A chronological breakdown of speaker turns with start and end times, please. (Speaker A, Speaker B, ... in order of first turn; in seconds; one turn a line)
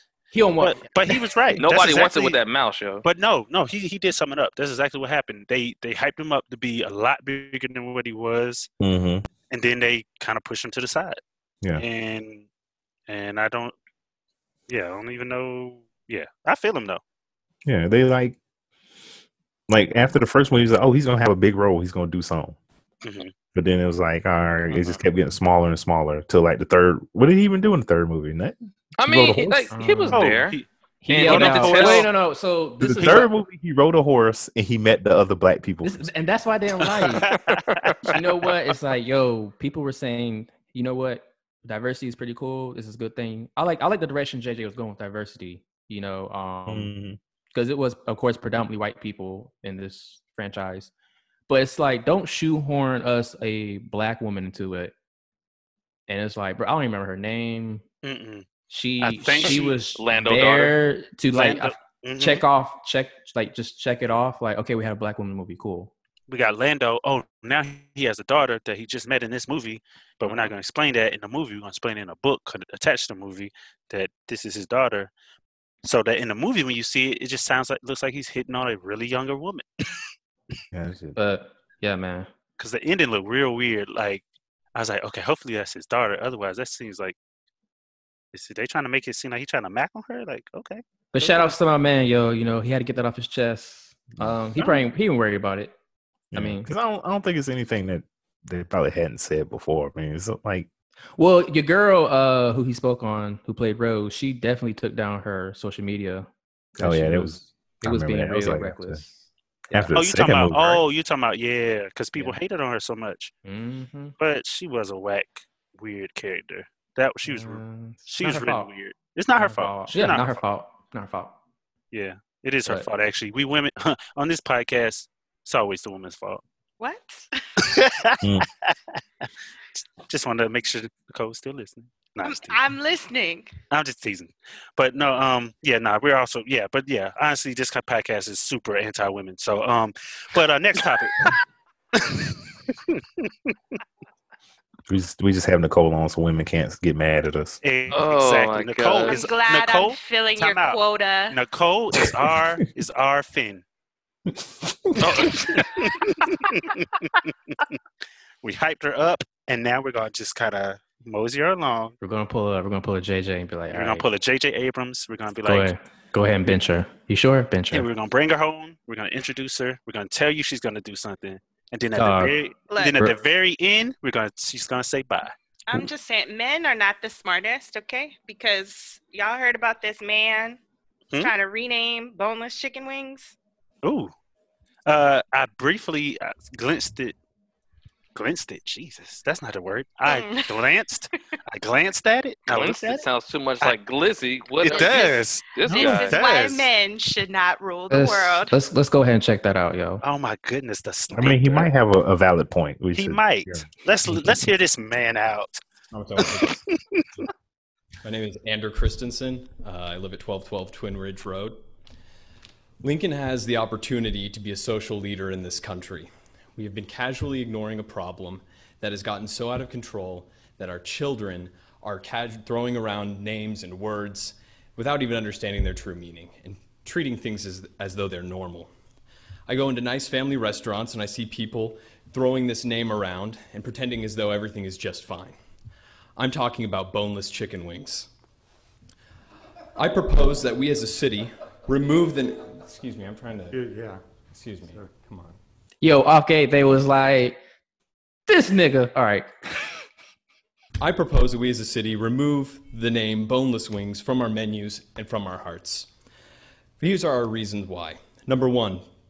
Speaker A: 0.3-1.3
Speaker B: 0.6-2.4
Speaker C: 1.6-3.0
Speaker B: 3.0-8.7
Speaker D: 8.8-9.2
Speaker B: 9.5-11.2
Speaker B: 11.8-12.4
Speaker B: 13.1-13.7
Speaker B: 14.7-17.0
Speaker D: 17.6-18.4
Speaker D: 19.7-22.6
Speaker B: 23.0-23.3
Speaker D: 23.5-29.7
Speaker C: 24.7-25.0
Speaker C: 29.0-32.1
Speaker A: 29.7-30.3
Speaker B: 30.1-32.1
Speaker A: 31.0-33.3
Speaker D: 32.8-36.1
Speaker B: 32.9-33.3
Speaker A: 35.8-37.2
Speaker B: 36.9-38.1
Speaker C: 37.4-38.0
Speaker A: 38.1-46.9
Speaker D: 46.7-47.2
Speaker A: 47.5-50.9
Speaker A: 51.5-54.9
Speaker A: 56.1-57.8
Speaker B: 58.0-58.5
Speaker A: 58.7-65.9
Speaker B: 59.0-59.8
Speaker C: 59.4-60.8
Speaker B: 61.3-62.4
Speaker B: 66.3-75.1
Speaker B: 75.8-79.6
Speaker D: 80.7-81.2
Speaker A: 81.2-82.3
Speaker B: 82.6-84.2
Speaker B: 84.7-87.1
Speaker B: 88.3-91.5
Speaker A: 91.1-95.7
Speaker D: 94.2-94.8
Speaker D: 96.3-100.7
Speaker A: 96.3-96.7
Speaker A: 101.2-109.9
Speaker D: 106.8-109.0
Speaker D: 109.7-110.8
Speaker B: 109.9-113.3
Speaker A: 113.4-114.1
Speaker B: 114.2-120.4
Speaker A: 117.2-118.7
Speaker A: 119.4-121.4
Speaker B: 121.9-126.4
Speaker E: 126.8-127.4
Speaker B: 127.6-128.2
Speaker B: 129.8-132.6
Speaker E: 132.2-133.5
Speaker B: 133.7-141.3
Speaker B: 141.9-143.5
Speaker D: 144.9-147.6
Speaker B: 147.6-153.6
Speaker C: 147.9-149.2
Speaker E: 149.1-151.4
Speaker D: 152.0-152.4
Speaker B: 155.0-156.9
Speaker B: 158.4-161.9
Speaker A: 162.0-164.1
Speaker B: 163.7-165.7
Speaker A: 165.4-167.9
Speaker B: 167.7-175.3
Speaker A: 171.9-172.3
Speaker E: 172.7-173.0
Speaker E: 175.7-180.6
Speaker E: 181.2-183.3
Speaker B: 183.8-184.1
Speaker B: 184.9-187.1
Speaker B: 188.1-193.1
Speaker E: 190.1-190.5
Speaker C: 192.5-196.2
Speaker B: 194.6-196.7
Speaker E: 194.6-198.5
Speaker A: 197.9-200.0
Speaker B: 200.0-201.7
Speaker D: 201.1-204.4
Speaker B: 202.9-205.6
Speaker F: 205.9-206.6
Speaker B: 206.2-207.0
Speaker F: 208.0-211.6
Speaker F: 212.8-228.7
Speaker F: 229.5-235.4
Speaker F: 236.2-238.1
Speaker F: 239.8-245.4
Speaker A: 245.8-247.4
Speaker A: 248.3-249.7
Speaker F: 250.8-255.9
Speaker F: 256.8-258.9